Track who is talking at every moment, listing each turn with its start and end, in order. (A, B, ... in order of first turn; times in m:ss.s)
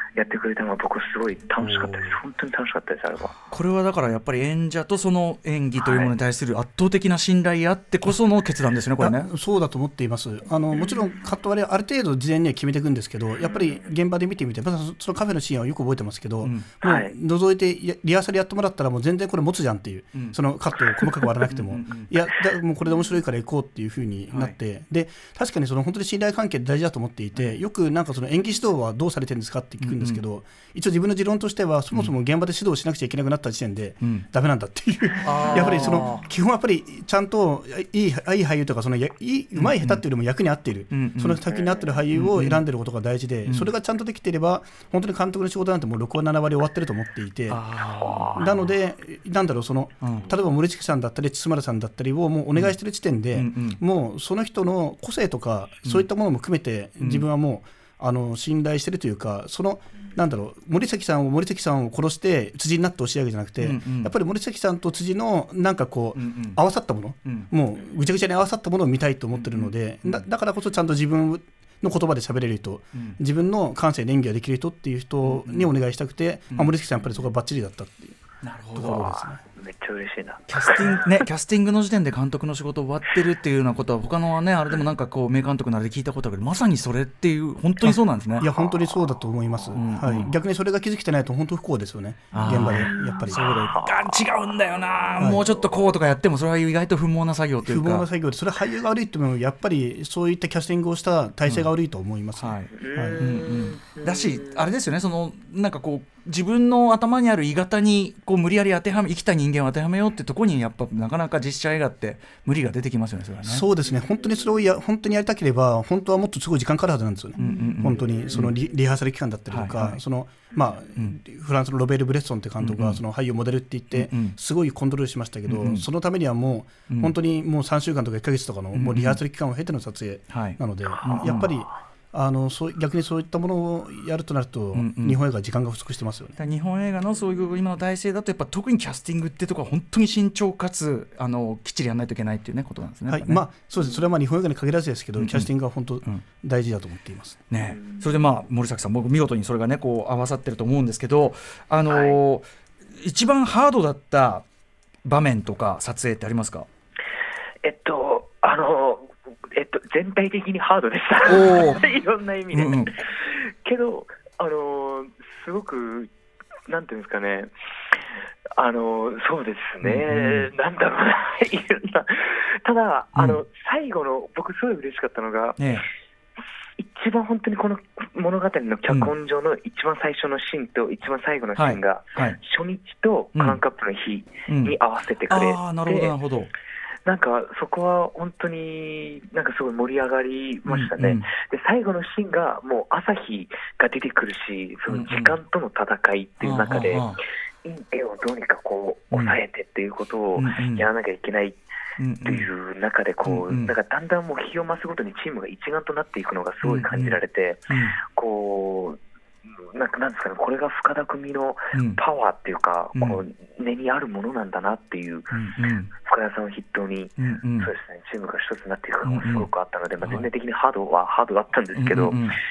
0:00.2-0:03.4 A
0:01.6-0:02.2 B
0:03.5-0:09.3 B
0:05.8-0:06.1 A
0:09.0-0:47.6 C
0:16.4-0:16.7 B
0:16.8-0:17.1 A
0:21.5-0:22.1 B
0:24.3-0:24.6 B
0:29.8-0:30.2 B
0:35.2-0:36.3 B
0:39.6-0:40.0 B
0:40.9-0:41.4 B
0:41.5-0:41.9 A
0:42.1-0:42.6 B
0:47.5-0:48.7 B
0:48.0-0:48.4 A
0:48.4-1:18.2 C
0:50.0-0:50.3 B
0:53.3-0:53.8 B
0:57.0-0:57.3 B
1:03.6-1:04.1 B
1:06.2-1:06.6 B
1:09.4-1:10.2 B
1:15.2-1:15.7 B
1:18.4-1:19.2 B
1:18.7-1:19.4 C
1:19.1-1:21.1 A
1:20.5-1:28.5 B
1:27.8-1:33.6 C
1:29.7-1:30.3 B
1:32.3-1:38.1 B
1:33.6-1:33.9 A
1:35.2-1:35.5 C
1:37.6-1:43.2 C
1:42.4-1:53.6 B
1:42.8-1:44.6 A
1:53.4-2:16.4 C
1:57.4-1:58.5 B
1:59.5-2:00.0 B
2:02.6-2:03.0 B
2:03.9-2:04.4 B
2:05.5-2:05.9 B
2:06.9-2:07.1 B
2:08.7-2:09.2 B
2:10.3-2:11.5 B
2:14.7-2:15.2 B
2:16.4-2:23.4 B
2:23.1-2:27.4 C
2:25.2-2:25.5 B
2:27.5-2:32.5 B
2:27.7-2:28.0 A
2:31.9-2:32.2 A
2:33.0-2:34.4 B
2:35.0-2:36.7 B
2:37.6-2:46.1 A
2:41.2-2:41.9 B
2:42.5-2:42.9 B
2:46.7-2:47.5 A
2:48.6-2:55.7 A
2:49.8-2:50.5 B
2:53.2-2:53.4 B
2:55.6-2:55.9 B
2:56.8-3:06.1 A
3:01.6-3:02.4 B
3:04.5-3:04.8 B
3:05.3-3:06.5 B
3:07.1-3:21.6 A
3:10.7-3:11.2 B
3:14.9-3:15.4 B
3:16.4-3:17.2 B
3:20.4-3:20.9 B
3:22.0-3:22.5 B
3:22.2-3:29.0 A
3:23.2-3:23.7 B
3:26.6-3:27.2 B
3:27.7-3:28.0 B
3:29.6-3:35.3 A
3:31.7-3:32.0 B
3:35.3-3:35.9 B
3:36.0-3:42.3 A
3:37.2-3:37.7 B
3:39.0-3:39.5 B
3:40.0-3:40.3 B
3:41.8-3:42.4 B